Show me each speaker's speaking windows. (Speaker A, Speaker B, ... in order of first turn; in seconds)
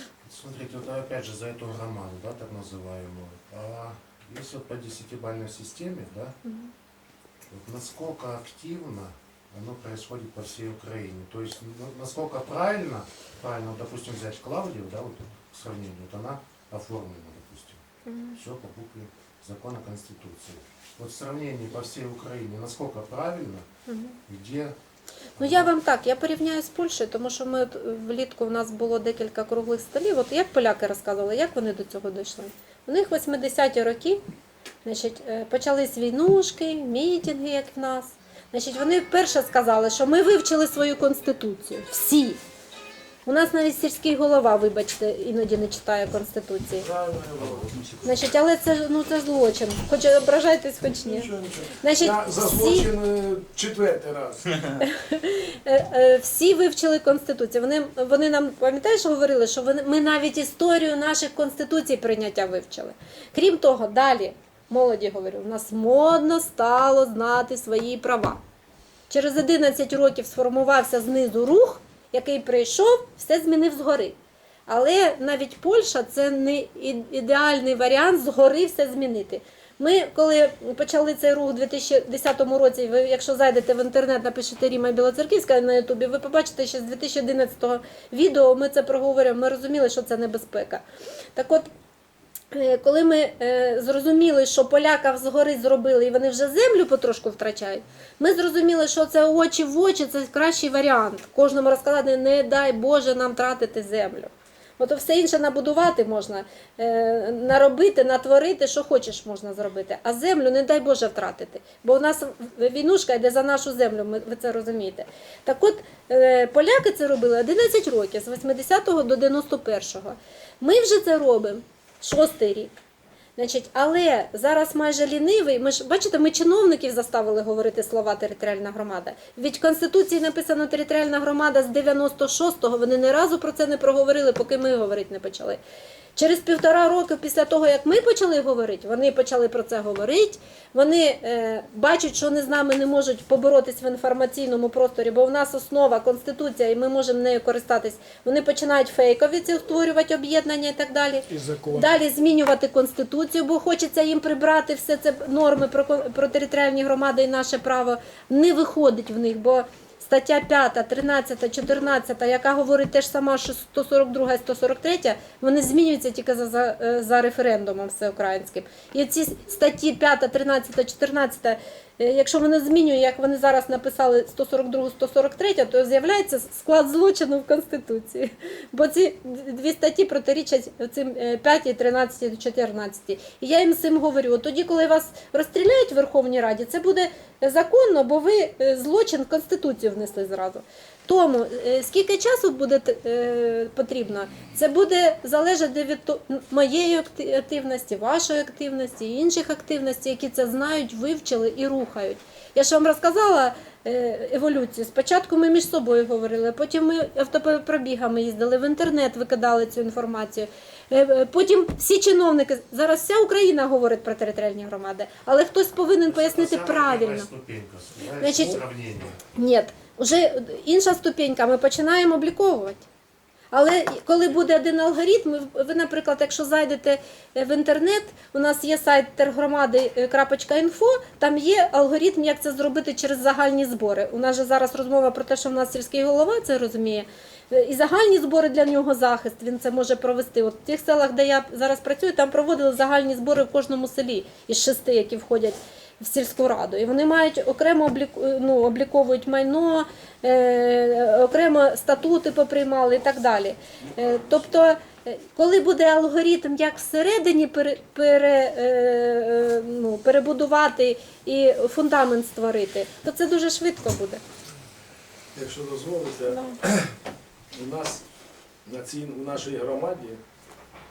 Speaker A: 0.2-6.4, 7.5-17.8, 18.4-23.6, 24.3-24.8, 25.4-25.7, 47.4-48.0, 216.1-219.2
Speaker B: 6.5-6.7, 18.1-18.4, 23.9-24.2, 25.4-34.2, 34.9-42.4, 43.3-46.9, 48.0-52.9, 54.8-68.4, 69.1-74.2, 74.7-90.8, 91.3-91.7, 92.5-122.8, 123.4-135.6, 136.2-217.3, 218.2-218.6, 219.3-222.9, 223.5-264.2, 266.3-266.6
Speaker C: 46.8-47.8, 50.9-54.8, 265.4-266.9, 267.5-268.0, 268.6-270.2